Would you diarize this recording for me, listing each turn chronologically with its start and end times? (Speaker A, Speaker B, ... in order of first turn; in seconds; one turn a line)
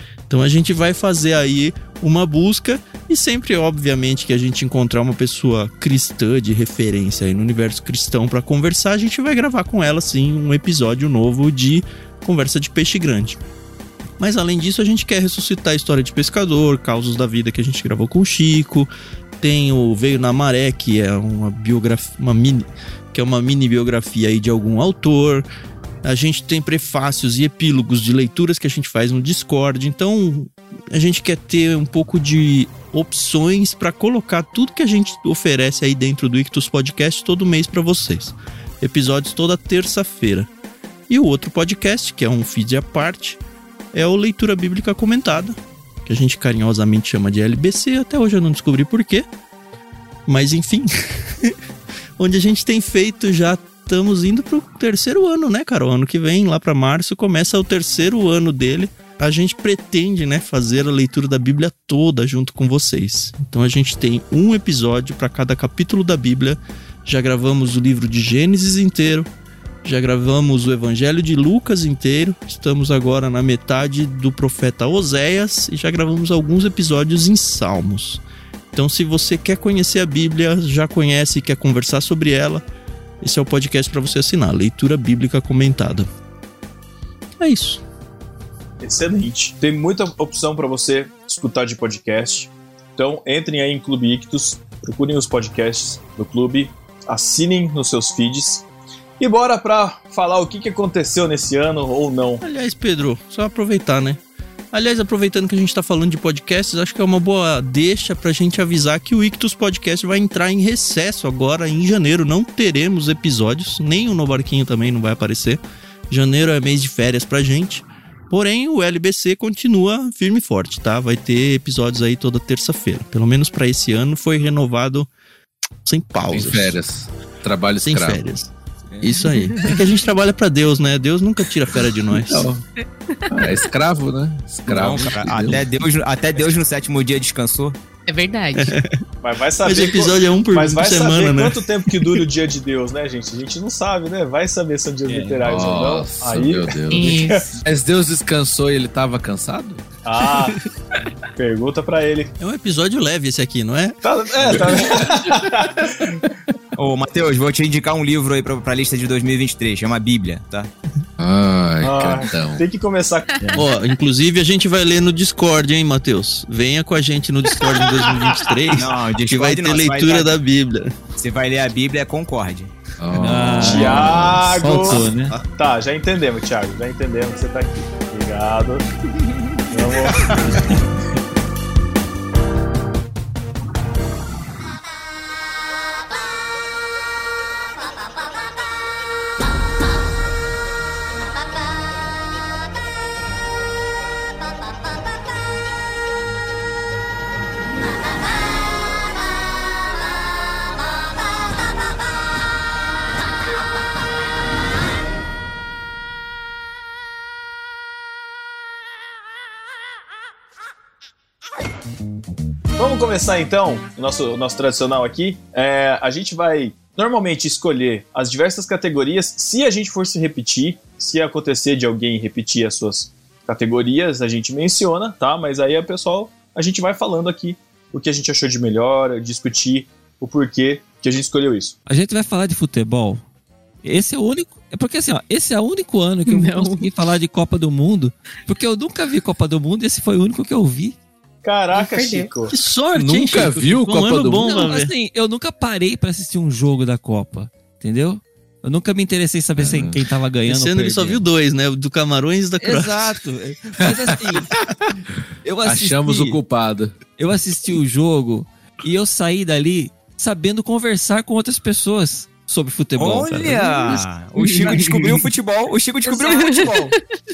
Speaker A: 0.3-13.4
Speaker A: 14.2-18.9
Speaker A: 19.4-25.5
Speaker A: 26.0-40.5
Speaker A: 41.1-43.4
Speaker A: 43.9-49.2
Speaker A: 50.3-51.5
Speaker A: 52.2-69.3
Speaker A: 69.8-78.2
Speaker A: 78.7-82.6
Speaker A: 83.2-86.1
Speaker A: 87.4-87.8
Speaker B: 88.8-98.6
Speaker B: 99.2-102.4
Speaker A: 102.4-104.2
Speaker A: 104.7-125.1
Speaker A: 125.8-126.8
Speaker C: 126.3-128.2
Speaker A: 127.8-128.5
Speaker D: 128.9-129.7
Speaker A: 129.0-132.5
Speaker C: 132.1-132.6
Speaker E: 133.2-133.7
Speaker C: 133.3-135.7
Speaker F: 134.7-137.7
Speaker E: 138.1-138.8
Speaker A: 138.6-139.0
Speaker B: 139.2-146.8
Speaker A: 139.6-142.2
Speaker D: 145.1-145.4
Speaker C: 145.4-149.8
Speaker E: 146.9-147.5
Speaker B: 150.0-150.6
Speaker B: 151.3-152.3
Speaker A: 152.4-154.0
Speaker B: 154.0-156.2
Speaker F: 156.8-160.7
Speaker C: 161.2-162.6
Speaker B: 161.8-163.5
Speaker A: 163.5-170.9
Speaker F: 168.7-170.3
Speaker F: 171.2-172.7
Speaker C: 173.0-175.0
Speaker D: 173.1-175.3
Speaker B: 173.6-178.8
Speaker A: 174.7-175.4
Speaker B: 179.7-180.4
Speaker B: 212.8-231.7
Speaker D: 231.9-233.2
Speaker D: 233.8-240.9
Speaker E: 236.3-236.9
Speaker B: 241.4-242.5
Speaker E: 241.7-242.3
Speaker A: 242.5-244.9
Speaker C: 242.9-244.7
Speaker D: 244.4-251.2
Speaker C: 249.6-249.9
Speaker A: 250.4-253.1
Speaker D: 252.6-254.6
Speaker C: 253.8-254.7
Speaker D: 255.4-256.4
Speaker C: 255.6-256.9
Speaker D: 257.2-264.0
Speaker F: 263.0-266.9
Speaker E: 266.1-267.0